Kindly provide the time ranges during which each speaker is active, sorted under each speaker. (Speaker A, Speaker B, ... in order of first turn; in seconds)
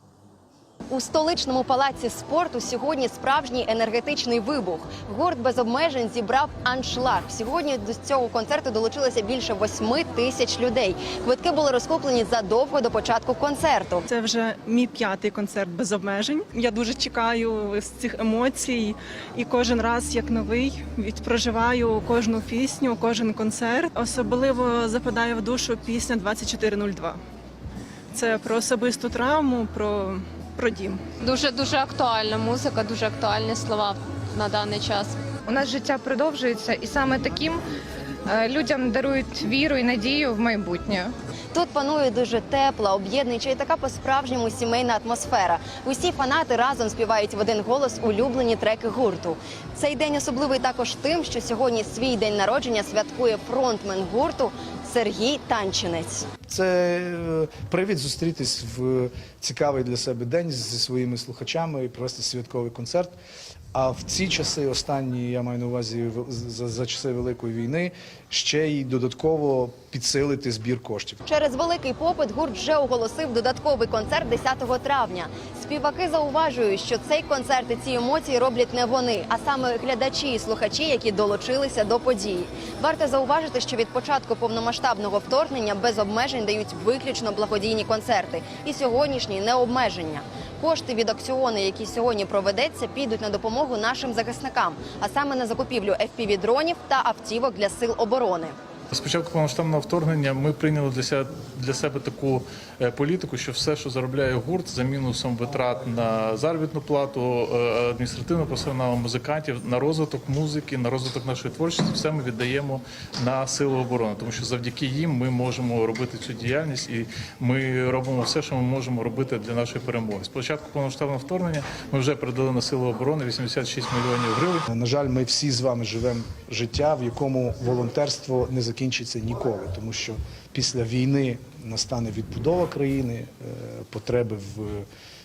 Speaker A: 0.9-14.1, 41.5-56.3, 71.3-98.5
Speaker B: 14.1-27.2, 28.1-31.0
Speaker C: 31.2-35.2
Speaker D: 35.5-37.6, 38.3-41.1
Speaker E: 56.5-63.1, 63.7-71.2, 124.7-134.9
Speaker F: 98.9-124.7